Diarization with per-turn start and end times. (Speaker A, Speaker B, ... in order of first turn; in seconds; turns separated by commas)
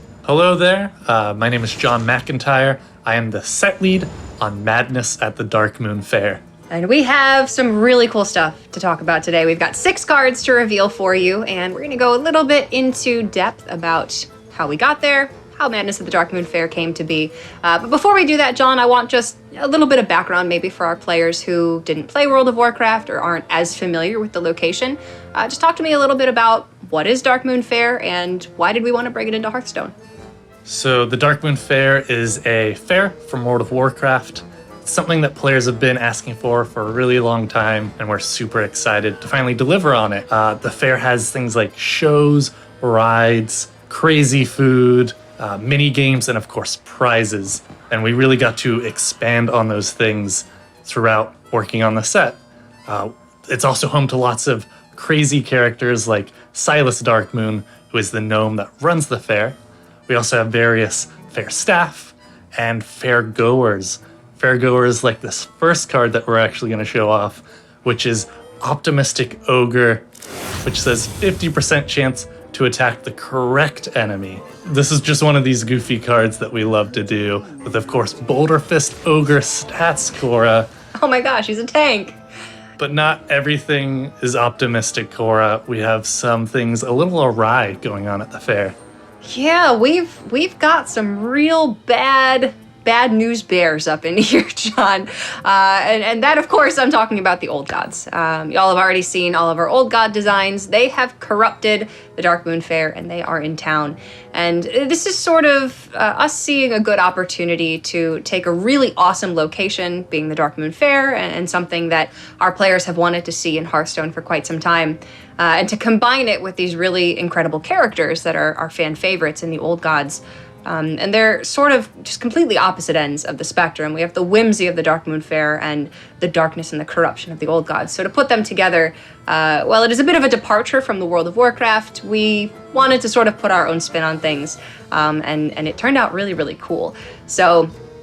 Speaker A: 0.2-6.4, Speaker B: 6.7-29.9, Speaker A: 30.6-59.6, Speaker A: 60.1-70.0, Speaker A: 70.6-80.7, Speaker B: 81.0-82.1, Speaker A: 82.8-88.7, Speaker B: 89.2-137.7